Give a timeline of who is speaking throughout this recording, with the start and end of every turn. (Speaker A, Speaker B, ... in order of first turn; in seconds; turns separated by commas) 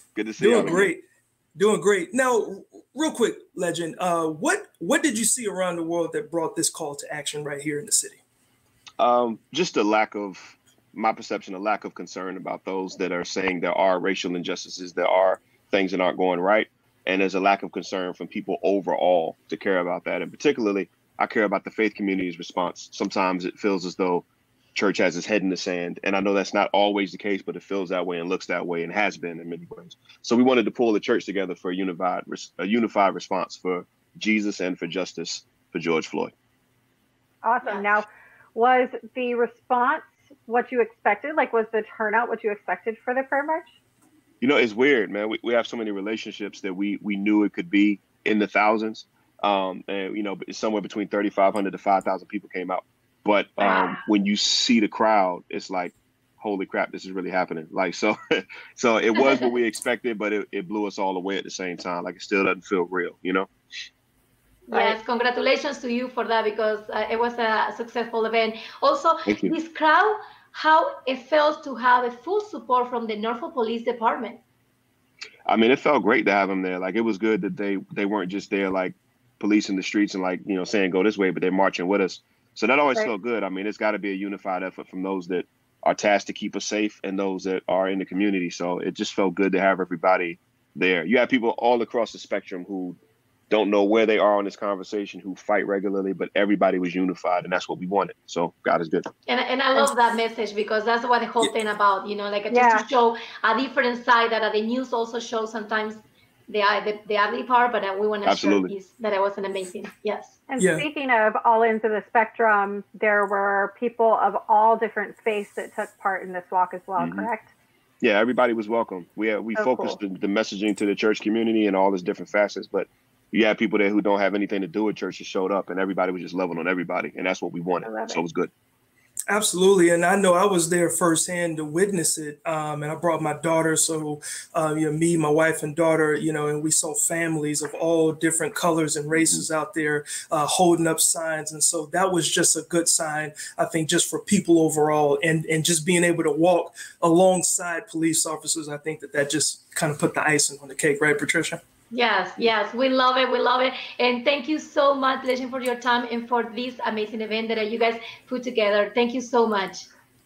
Speaker A: 0.1-0.9, Speaker B: 0.4-1.0, Speaker B: 1.6-8.2, Speaker A: 9.0-36.3, Speaker C: 37.4-43.7, Speaker D: 37.6-38.0, Speaker A: 44.4-63.5, Speaker D: 53.6-54.0, Speaker D: 59.2-59.4, Speaker D: 64.7-74.4, Speaker C: 64.7-65.0, Speaker A: 69.2-69.5, Speaker A: 75.5-93.0, Speaker A: 93.5-99.1, Speaker D: 99.3-110.4, Speaker C: 102.5-102.8, Speaker A: 108.2-108.7, Speaker C: 110.5-117.5, Speaker B: 110.6-110.8, Speaker A: 117.0-117.3, Speaker A: 118.0-128.5, Speaker C: 119.5-120.0, Speaker C: 127.8-128.2, Speaker B: 129.3-151.6, Speaker A: 139.1-139.4, Speaker D: 151.9-159.9